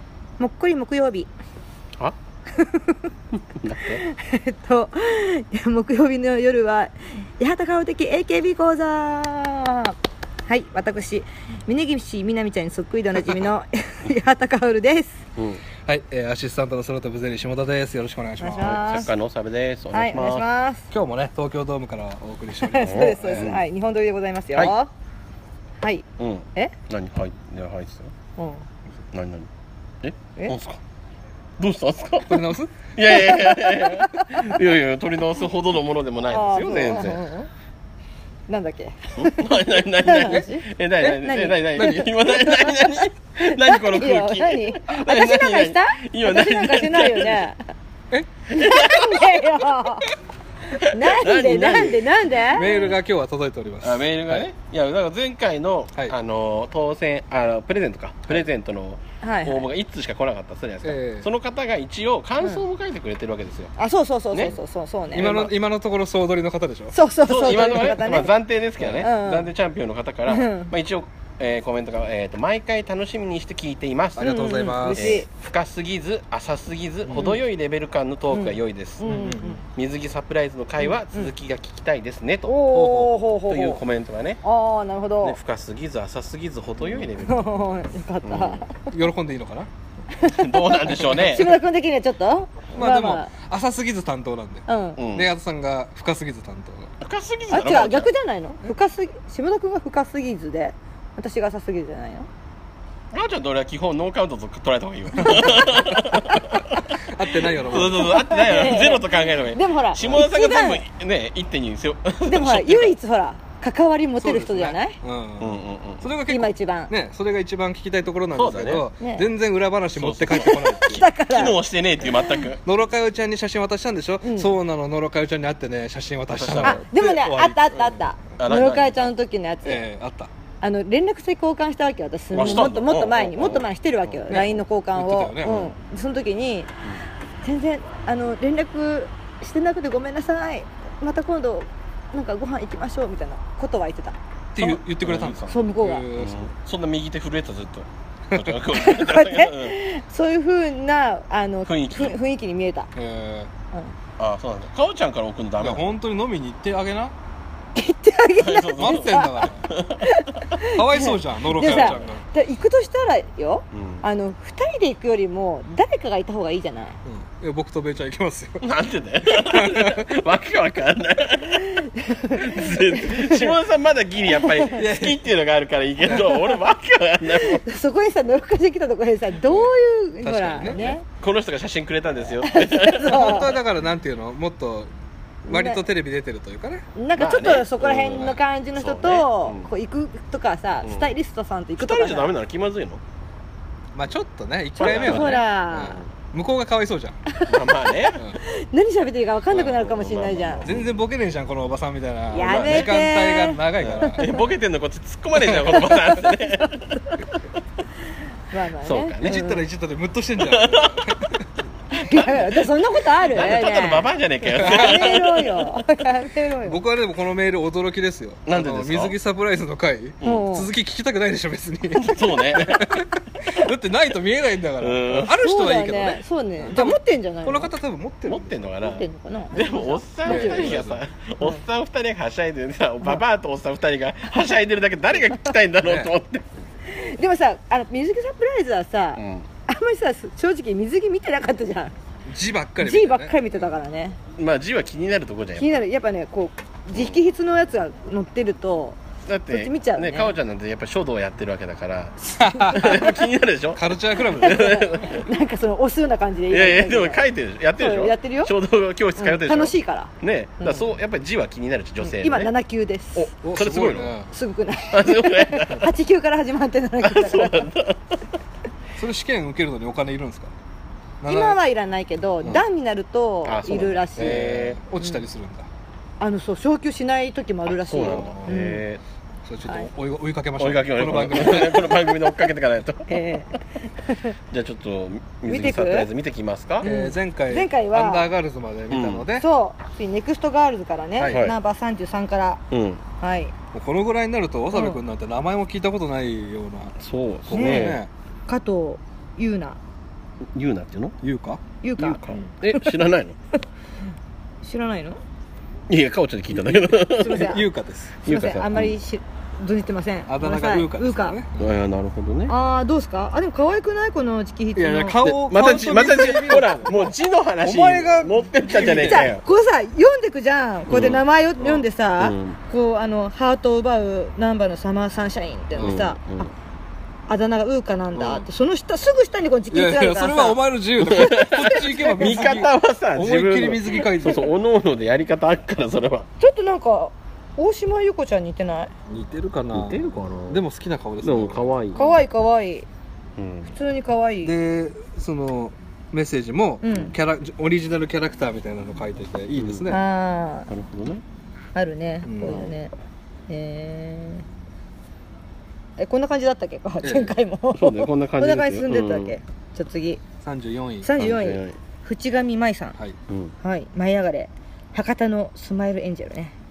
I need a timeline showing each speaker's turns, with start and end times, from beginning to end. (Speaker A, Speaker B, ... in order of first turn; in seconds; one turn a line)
Speaker A: 0.4-1.3
Speaker A: 2.5-3.1
Speaker B: 3.5-4.0
Speaker A: 3.9-10.0
Speaker A: 10.5-15.2
Speaker B: 15.4-15.6
Speaker C: 15.8-18.8
Speaker A: 18.4-19.1
Speaker B: 18.6-20.5
Speaker A: 19.9-20.9
Speaker C: 20.9-23.5
Speaker A: 22.6-24.9
Speaker B: 22.8-23.6
Speaker A: 25.8-26.7
Speaker B: 26.2-28.1
Speaker A: 28.4-28.6
Speaker B: 29.1-29.5
Speaker B: 30.0-30.8
Speaker B: 31.6-37.2
Speaker C: 32.3-32.7
Speaker A: 33.1-34.6
Speaker A: 36.3-37.5
Speaker A: 38.5-40.7
Speaker B: 39.2-47.5
Speaker C: 41.0-42.1
Speaker A: 41.2-47.6
Speaker A: 48.5-50.1
Speaker B: 48.5-49.6
Speaker B: 50.8-52.2
Speaker A: 50.8-52.9
Speaker C: 52.5-54.5
Speaker B: 53.8-63.7
Speaker A: 59.2-59.6
Speaker C: 60.8-61.3
Speaker A: 63.8-65.5
Speaker C: 65.1-67.0
Speaker B: 65.2-65.5
Speaker A: 66.9-68.3
Speaker B: 67.2-82.6
Speaker C: 68.8-69.1
Speaker A: 69.0-69.5
Speaker A: 70.3-70.7
Speaker C: 74.2-75.2
Speaker A: 74.2-75.3
Speaker A: 77.1-77.4
Speaker A: 78.3-79.6
Speaker C: 79.0-79.6
Speaker A: 80.8-81.3
Speaker A: 82.5-83.8
Speaker C: 82.7-83.2
Speaker B: 83.5-84.4
Speaker A: 84.4-85.4
Speaker B: 85.2-87.4
Speaker A: 87.2-88.9
Speaker B: 88.2-88.6
Speaker C: 88.9-89.7
Speaker A: 90.1-93.3
Speaker B: 90.2-91.6
Speaker C: 92.8-97.0
Speaker A: 94.7-95.0
Speaker B: 95.0-95.3
Speaker B: 97.0-98.1
Speaker A: 97.5-102.3
Speaker B: 103.1-113.0
Speaker A: 105.2-105.5
Speaker C: 105.2-108.2
Speaker A: 107.7-110.8
Speaker A: 112.3-115.0
Speaker C: 114.2-121.1
Speaker B: 115.4-116.1
Speaker A: 116.3-116.9
Speaker B: 118.3-118.9
Speaker A: 119.0-119.3
Speaker B: 119.9-122.6
Speaker A: 120.4-122.5
Speaker C: 122.7-128.0
Speaker A: 124.2-124.5
Speaker B: 126.3-127.1
Speaker A: 126.6-129.8
Speaker B: 128.4-129.1
Speaker C: 129.7-130.3
Speaker A: 130.6-136.7
Speaker B: 132.3-134.2
Speaker C: 134.3-135.7
Speaker B: 135.4-135.7
Speaker A: 137.4-144.2
Speaker C: 144.5-146.5
Speaker B: 144.6-145.6
Speaker A: 145.5-146.1
Speaker B: 146.2-149.8
Speaker C: 148.3-148.6
Speaker A: 148.7-152.9
Speaker B: 151.7-152.2
Speaker C: 152.9-153.5
Speaker B: 154.2-155.9
Speaker C: 155.6-157.1
Speaker A: 157.8-159.5
Speaker B: 158.4-160.6
Speaker C: 158.8-159.7
Speaker A: 160.0-167.0
Speaker C: 160.7-162.2
Speaker B: 161.5-162.2
Speaker B: 163.7-164.0
Speaker C: 167.1-168.7
Speaker B: 168.6-177.6
Speaker C: 169.2-170.1
Speaker A: 171.6-173.5
Speaker A: 174.4-174.8
Speaker C: 174.8-175.2
Speaker A: 176.1-176.5
Speaker A: 177.3-181.0
Speaker C: 180.2-180.8
Speaker B: 180.7-183.5
Speaker A: 182.4-183.5
Speaker C: 183.1-184.9
Speaker C: 185.5-186.9
Speaker A: 185.5-185.8
Speaker A: 186.9-192.3
Speaker B: 187.2-189.7
Speaker B: 190.8-191.2
Speaker B: 191.8-193.0
Speaker C: 193.9-197.2
Speaker B: 194.8-195.4
Speaker A: 194.8-196.0
Speaker A: 197.3-200.7
Speaker B: 197.4-198.2
Speaker B: 199.5-200.9
Speaker C: 200.7-204.3
Speaker A: 202.3-203.6
Speaker B: 202.3-203.1
Speaker B: 203.8-207.4
Speaker C: 205.4-205.9
Speaker A: 205.7-206.7
Speaker A: 208.5-209.7
Speaker B: 208.8-209.4
Speaker C: 209.2-211.5
Speaker B: 210.4-211.0
Speaker A: 211.9-216.8
Speaker B: 212.1-215.5
Speaker C: 214.5-215.3
Speaker C: 216.6-228.6
Speaker B: 218.5-219.2
Speaker B: 220.2-220.5
Speaker A: 220.2-220.7
Speaker B: 221.9-223.0
Speaker B: 224.8-225.3
Speaker A: 225.2-227.7
Speaker B: 228.3-236.5
Speaker A: 228.8-230.8
Speaker C: 230.2-231.0
Speaker C: 235.8-236.1
Speaker A: 236.9-241.9
Speaker B: 239.2-239.5
Speaker C: 242.3-243.4
Speaker A: 242.8-244.2
Speaker B: 244.3-245.7
Speaker A: 245.6-249.0
Speaker B: 246.9-247.2
Speaker B: 249.3-255.3
Speaker A: 249.5-250.3
Speaker C: 252.3-254.8
Speaker A: 254.4-257.3
Speaker B: 256.5-262.5
Speaker A: 257.8-258.5
Speaker A: 259.2-260.9
Speaker A: 262.0-263.3
Speaker B: 263.1-264.2
Speaker C: 263.4-264.3
Speaker A: 264.3-267.7
Speaker B: 264.9-265.9
Speaker B: 267.0-268.2
Speaker C: 269.0-270.5
Speaker C: 271.2-271.6
Speaker A: 271.2-274.5
Speaker B: 273.4-274.8
Speaker C: 274.2-275.7
Speaker A: 276.2-278.8
Speaker B: 277.7-279.0
Speaker C: 277.9-278.6
Speaker C: 279.4-282.0
Speaker B: 280.6-283.1
Speaker A: 283.1-284.4
Speaker B: 284.5-286.9
Speaker A: 285.5-286.1
Speaker A: 286.8-288.3
Speaker C: 286.8-289.5
Speaker B: 288.9-289.3
Speaker A: 289.4-292.6
Speaker B: 291.3-291.6
Speaker B: 292.7-293.0
Speaker A: 293.2-293.5
Speaker C: 293.7-298.1
Speaker A: 294.7-295.0
Speaker B: 297.0-298.0
Speaker A: 297.5-299.8
Speaker B: 300.5-301.2
Speaker C: 301.2-301.6
Speaker A: 301.8-302.9
Speaker B: 302.0-303.4
Speaker A: 304.6-305.2
Speaker B: 305.9-307.6
Speaker C: 306.5-308.2
Speaker A: 307.0-307.7
Speaker A: 308.2-311.4
Speaker B: 308.2-309.0
Speaker C: 310.3-311.8
Speaker B: 311.6-312.5
Speaker A: 312.5-315.3
Speaker C: 314.8-319.3
Speaker B: 315.2-319.4
Speaker A: 318.8-326.2
Speaker B: 320.9-321.2
Speaker B: 322.2-322.6
Speaker B: 325.8-326.5
Speaker A: 327.3-330.6
Speaker C: 328.1-328.5
Speaker C: 329.7-334.5
Speaker B: 331.0-336.3
Speaker A: 331.6-332.5
Speaker A: 336.4-338.9
Speaker C: 339.1-342.1
Speaker B: 339.7-340.6
Speaker B: 341.2-342.2
Speaker A: 342.0-342.9
Speaker B: 343.4-343.7
Speaker A: 343.7-344.5
Speaker C: 344.4-350.0
Speaker A: 346.8-347.1
Speaker B: 349.6-350.0
Speaker A: 349.9-350.7
Speaker B: 350.7-351.2
Speaker A: 351.8-352.9
Speaker C: 352.2-352.7
Speaker B: 352.4-352.8
Speaker A: 353.5-354.5
Speaker A: 356.0-360.2
Speaker C: 357.0-357.4
Speaker B: 357.7-359.4
Speaker C: 360.4-361.1
Speaker A: 361.0-363.0
Speaker B: 361.2-361.8
Speaker B: 363.3-363.5
Speaker A: 363.6-366.5